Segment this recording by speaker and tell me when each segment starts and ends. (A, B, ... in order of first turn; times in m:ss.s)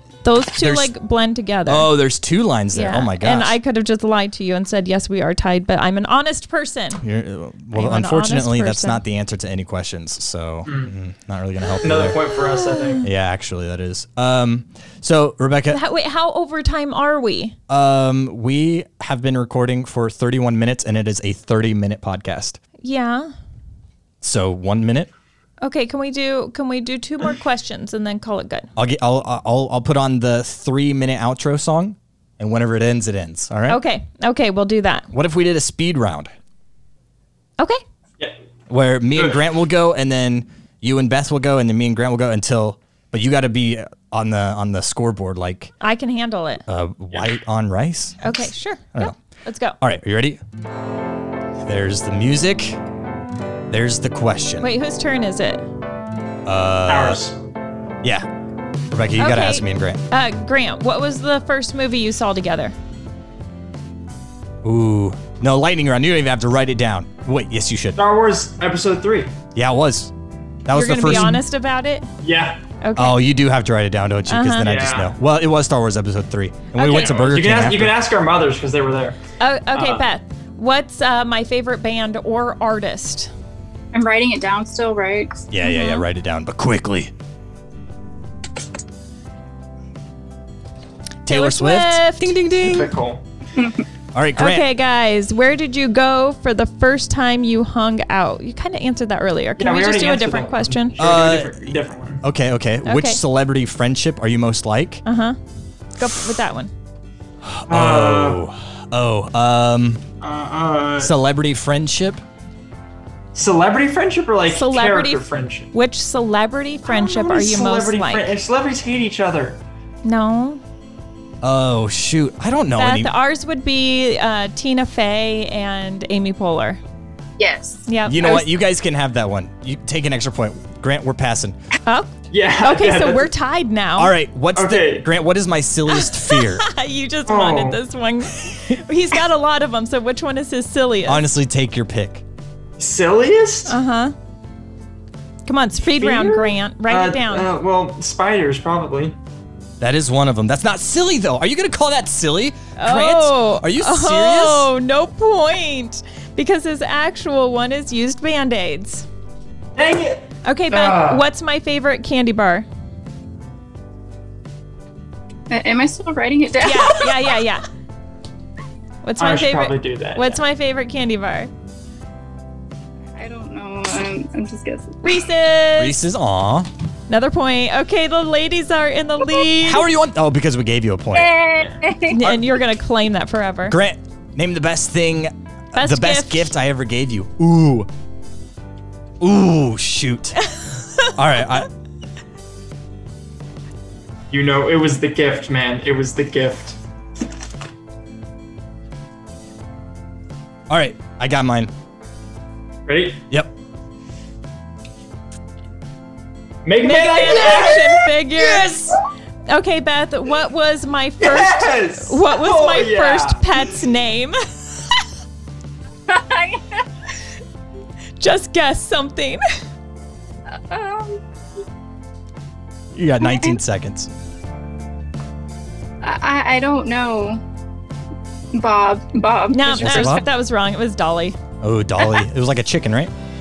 0:00.2-0:01.9 A
0:00.6-0:00.9 B
0:01.7-0:03.6 B
0:02.7-0:07.0 A
0:07.0-0:12.2 B
0:07.7-0:09.0 A
0:10.7-0:10.9 C
0:11.8-0:13.0 C
0:12.4-0:13.0 A
0:13.0-0:15.8 B
0:15.7-0:17.6 A
0:17.7-0:22.6 B
0:22.8-0:23.3 A
0:24.2-0:25.1 B
0:25.6-0:28.7 A
0:28.8-0:33.8 B
0:33.7-0:35.1 A
0:35.1-0:36.3 B
0:38.7-0:45.7 B
0:45.8-0:46.6 A
0:46.7-0:48.3 B
0:48.2-0:49.8 A
0:49.8-0:50.4 B
0:51.6-0:52.8 B
0:53.7-0:54.7 B
0:54.6-0:55.6 A
0:56.4-0:57.2 B
0:56.9-0:57.4 C
0:58.0-0:58.3 B
0:58.9-1:00.0 B
0:59.2-1:02.8 A
1:04.6-1:08.0 B
1:08.0-1:09.3 C
1:09.6-1:10.1 B
1:10.6-1:11.4 B
1:10.7-1:12.1 A
1:12.2-1:12.6 C
1:12.8-1:13.2 A
1:13.0-1:18.0 B
1:14.3-1:14.7 A
1:14.6-1:15.1 C
1:16.8-1:19.2 C
1:16.8-1:17.1 A
1:19.4-1:23.3 A
1:19.7-1:20.0 C
1:23.9-1:25.5 D
1:25.5-1:27.1 B
1:25.6-1:26.0 A
1:31.3-1:32.9 B
1:31.3-1:32.4 A
1:32.6-1:33.2 C
1:34.1-1:34.7 B
1:34.4-1:40.9 A
1:39.6-1:42.2 C
1:41.0-1:41.7 B
1:42.2-1:45.0 B
1:42.8-1:43.2 A
1:45.0-1:45.4 A
1:46.0-1:46.7 A
1:47.4-1:50.0 B
1:47.7-1:48.4 C
1:50.2-1:51.1 C
1:51.0-1:52.2 B
1:53.4-1:55.7 C
1:54.5-1:58.3 A
1:56.9-1:59.6 C
2:00.0-2:00.6 A
2:01.4-2:03.1 B
2:02.8-2:06.8 A
2:07.4-2:07.8 D
2:07.9-2:08.5 A
2:08.1-2:11.6 B
2:11.9-2:14.1 A
2:12.3-2:13.3 C
2:14.0-2:16.6 B
2:14.6-2:15.1 C
2:15.9-2:21.2 A
2:17.3-2:17.8 C
2:21.0-2:22.2 B
2:22.8-2:23.8 C
2:23.7-2:24.1 A
2:25.5-2:27.5 A
2:26.0-2:29.2 C
2:29.8-2:34.7 B
2:32.8-2:39.1 A
2:39.8-2:41.3 C
2:40.4-2:42.7 A
2:45.5-2:47.1 D
2:46.6-2:47.7 A
2:49.0-2:51.5 A
2:49.2-2:50.4 C
2:53.2-2:55.2 D
2:55.0-2:56.0 A
2:55.8-2:56.7 B
2:57.1-2:59.8 A
2:59.6-3:01.3 B
3:01.1-3:02.2 D
3:02.1-3:03.8 A
3:02.2-3:02.5 B
3:03.7-3:07.9 B
3:05.8-3:06.5 A
3:09.2-3:11.7 B
3:14.3-3:16.8 C
3:20.7-3:21.7 B
3:22.9-3:23.2 C
3:26.6-3:28.8 C
3:26.8-3:34.4 A
3:31.2-3:33.6 C
3:36.1-3:36.8 D
3:38.2-3:39.4 A
3:40.5-3:41.2 D
3:43.0-3:44.1 B
3:43.2-3:43.6 D
3:46.0-3:47.4 D
3:48.5-3:50.1 D
3:49.5-3:51.4 A
3:49.8-3:50.3 B
3:51.6-3:53.1 B